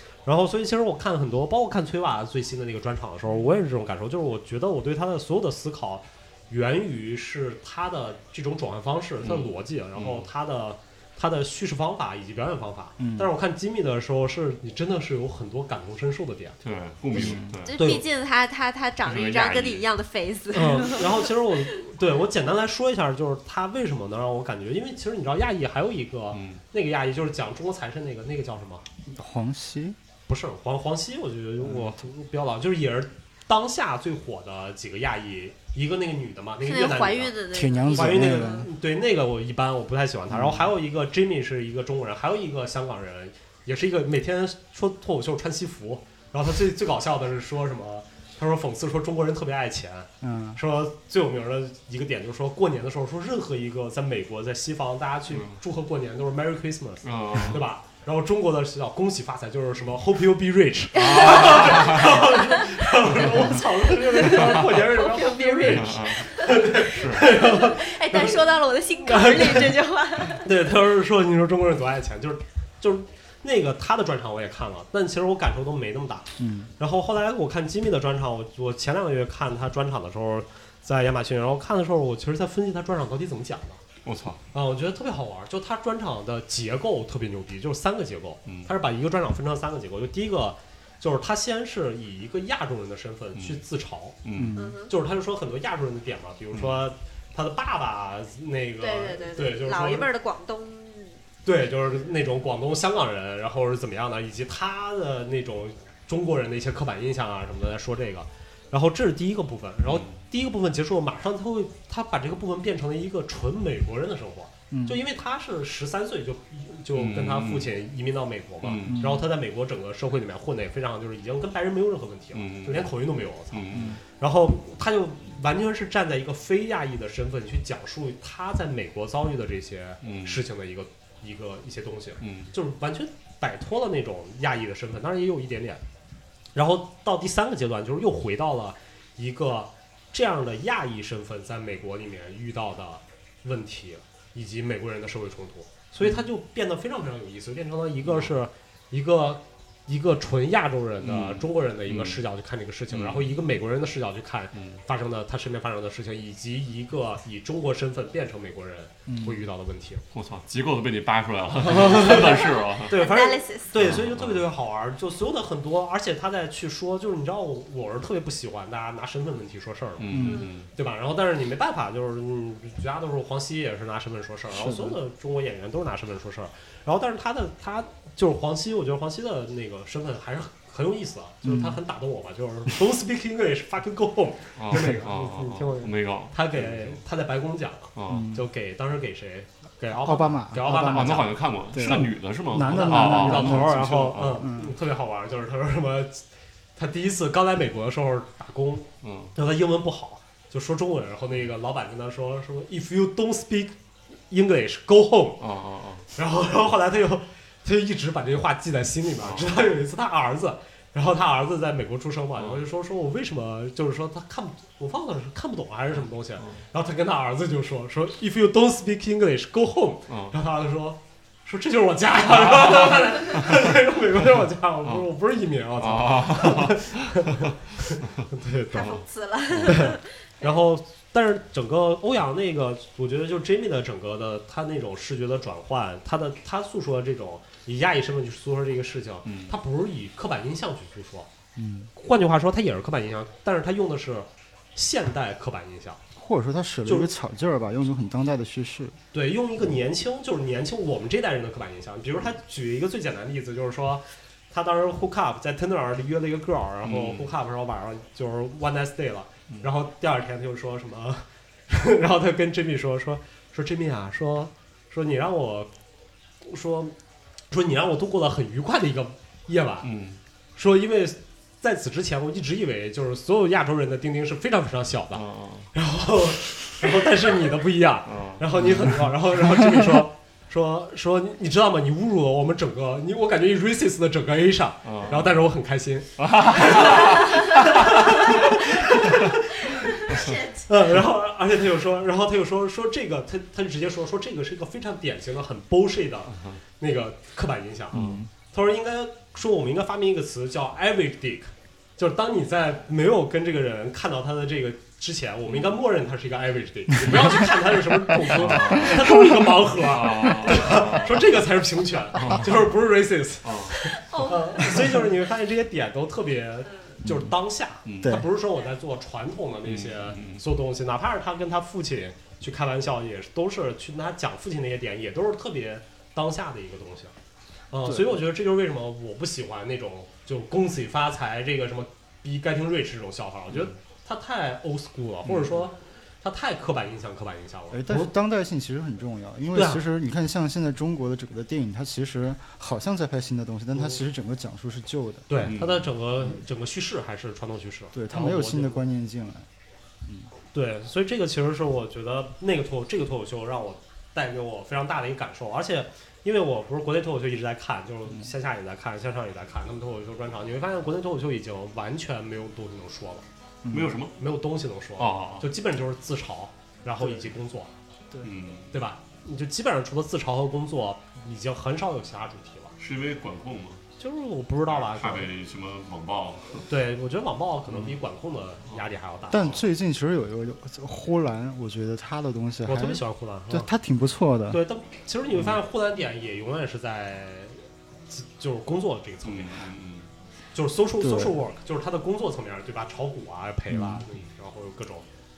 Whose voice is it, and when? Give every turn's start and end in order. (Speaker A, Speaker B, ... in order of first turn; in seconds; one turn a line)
Speaker A: 0.2-16.6
Speaker B: 9.2-10.3
Speaker C: 13.0-13.3
Speaker B: 16.6-17.8
Speaker C: 17.1-17.6
Speaker A: 17.1-18.0
Speaker D: 17.7-21.3
Speaker B: 19.1-19.9
Speaker A: 20.5-28.9
Speaker B: 26.3-26.6
Speaker C: 29.1-30.0
Speaker A: 30.3-37.4
Speaker C: 31.6-31.9
Speaker D: 36.6-38.6
Speaker C: 37.5-38.7
Speaker A: 37.9-68.4
Speaker C: 40.3-40.7
Speaker C: 50.2-50.6
Speaker B: 55.3-55.6
Speaker B: 57.0-57.6
Speaker B: 60.9-62.2
Speaker D: 61.0-62.9
Speaker B: 63.1-63.5
Speaker D: 64.0-70.5
Speaker B: 64.3-64.8
Speaker B: 65.6-67.3
Speaker A: 69.0-69.8
Speaker A: 70.3-83.8
Speaker C: 76.4-76.7
Speaker B: 84.0-84.4
Speaker A: 84.5-94.2
Speaker B: 88.5-88.7
Speaker B: 93.3-93.6
Speaker B: 94.2-94.5
Speaker C: 94.3-94.8
Speaker D: 94.6-94.9
Speaker A: 94.9-100.1
Speaker B: 96.5-96.8
Speaker D: 98.8-101.2
Speaker A: 101.4-135.8
Speaker B: 109.8-110.2
Speaker C: 114.7-115.0
Speaker B: 116.9-117.8
Speaker B: 118.6-119.1
Speaker C: 118.8-119.3
Speaker B: 122.3-122.9
Speaker B: 123.5-124.0
Speaker C: 123.7-124.0
Speaker B: 130.0-130.4
Speaker B: 132.2-132.5
Speaker A: 136.5-160.0
Speaker B: 148.0-148.3
Speaker B: 151.0-152.2
Speaker B: 152.9-153.4
Speaker B: 154.6-154.8
Speaker C: 159.1-159.4
Speaker B: 160.1-163.0
Speaker A: 161.6-196.2
Speaker D: 162.0-163.8
Speaker B: 163.8-164.5
Speaker B: 170.0-170.7
Speaker C: 170.1-170.5
Speaker D: 170.2-170.5
Speaker C: 174.5-175.0
Speaker C: 181.4-181.8
Speaker B: 184.6-187.0
Speaker B: 188.0-188.3
Speaker C: 188.1-188.5
Speaker C: 190.0-194.8
Speaker B: 190.6-194.5
Speaker A: 196.8-203.8
Speaker B: 199.0-199.3
Speaker A: 204.3-205.4
Speaker B: 205.4-206.1
Speaker A: 206.2-229.0
Speaker B: 209.2-209.5
Speaker B: 212.4-212.6
Speaker B: 220.1-220.4
Speaker B: 222.2-223.7
Speaker B: 225.8-227.3
Speaker D: 228.7-230.4
Speaker B: 228.8-229.9
Speaker A: 229.7-241.3
Speaker B: 239.2-239.6
Speaker C: 241.6-241.9
Speaker A: 241.9-246.0
Speaker C: 246.2-249.0
Speaker A: 246.9-247.1
Speaker A: 249.1-265.7
Speaker B: 256.8-257.3
Speaker A: 266.4-266.9
Speaker A: 267.5-269.9
Speaker B: 269.8-270.2
Speaker A: 270.6-327.1
Speaker B: 275.1-275.7
Speaker B: 278.1-278.9
Speaker B: 284.8-285.4
Speaker B: 286.2-289.3
Speaker D: 289.9-290.7
Speaker B: 296.3-296.6
Speaker B: 297.9-298.2
Speaker C: 297.9-298.3
Speaker B: 308.2-311.4
Speaker B: 312.1-312.7
Speaker B: 313.4-313.9
Speaker D: 313.8-314.7
Speaker C: 317.0-317.3
Speaker B: 317.9-318.2
Speaker C: 318.0-318.3
Speaker B: 319.6-320.4
Speaker A: 327.7-338.1
Speaker C: 327.9-328.2
Speaker B: 335.2-335.6
Speaker C: 337.7-345.5
Speaker A: 339.5-339.8
Speaker A: 345.3-348.8
Speaker B: 345.4-345.9
Speaker C: 347.9-349.5
Speaker A: 350.5-363.3
Speaker C: 363.6-364.0
Speaker B: 363.7-364.1
Speaker A: 364.2-367.7
Speaker B: 365.0-365.5
Speaker C: 367.0-367.3
Speaker B: 368.2-368.8
Speaker A: 368.7-372.8
Speaker B: 372.8-373.8
Speaker A: 374.0-375.3
Speaker B: 374.7-376.7
Speaker A: 376.7-379.6
Speaker B: 378.7-379.6
Speaker C: 379.3-384.6
Speaker A: 382.7-383.7
Speaker A: 384.5-389.6
Speaker B: 389.2-390.1
Speaker A: 390.5-395.1
Speaker C: 391.0-391.4
Speaker C: 393.7-394.0